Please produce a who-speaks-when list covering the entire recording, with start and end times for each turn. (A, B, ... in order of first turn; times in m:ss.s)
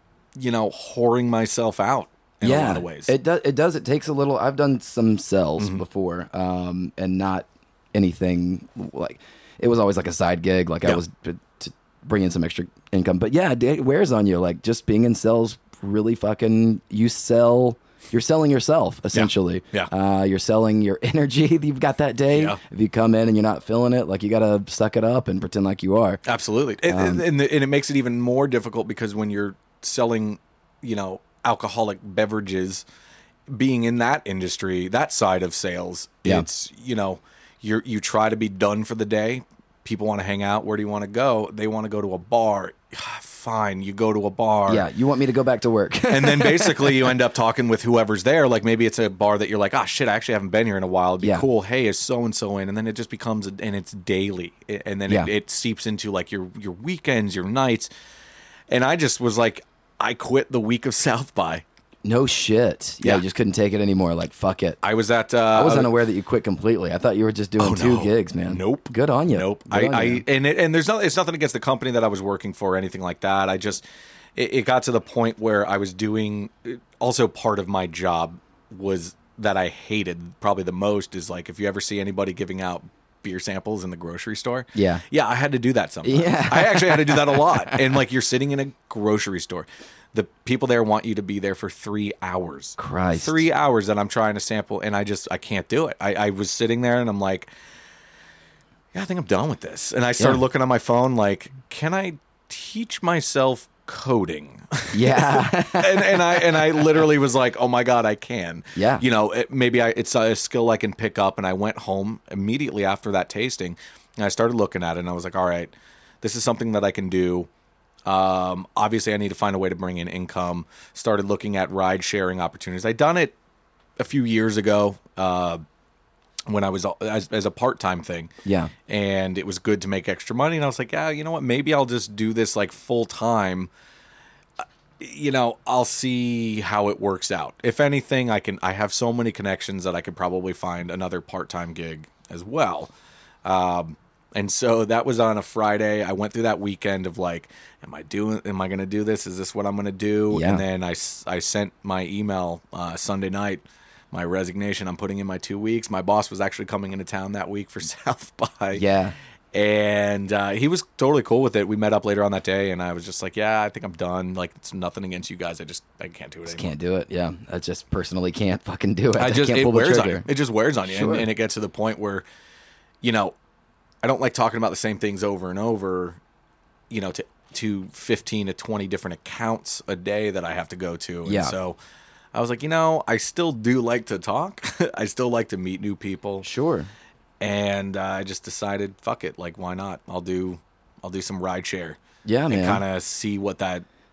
0:00.4-0:03.1 A
0:02.4-0:26.2 B
0:05.6-0:05.8 A
0:19.1-0:19.9 A
0:22.3-0:22.6 A
0:26.3-0:32.8 A
0:26.9-0:27.2 B
0:33.5-0:44.9 A
0:44.7-0:47.2 B
0:46.1-0:57.9 A
0:58.7-1:01.6 A
1:02.0-1:04.8 B
1:04.8-1:05.9 A
1:05.5-1:10.2 B
1:07.6-1:13.8 A
1:14.4-1:37.5 A
1:24.8-1:25.0 B
1:26.0-1:27.8 B
1:32.8-1:33.4 B
1:38.9-1:57.5 A
1:44.9-1:47.0 B
1:48.8-1:49.0 B
1:58.1-2:03.4 A
2:04.0-2:05.6 A
2:06.5-2:08.3 A
2:08.4-2:08.7 B
2:08.9-2:13.7 A
2:14.6-2:22.9 A
2:23.4-2:38.8 A
2:30.3-2:30.6 B
2:38.7-2:39.2 B
2:39.5-2:46.7 A
2:46.5-2:50.3 B
2:49.2-2:52.2 A
2:50.8-2:51.3 B
2:53.0-2:53.4 A
2:54.0-2:56.2 A
2:56.9-3:01.8 A
3:01.2-3:01.5 B
3:02.3-3:06.5 A
3:06.4-3:06.9 B
3:07.4-3:13.8 A
3:12.2-3:12.8 B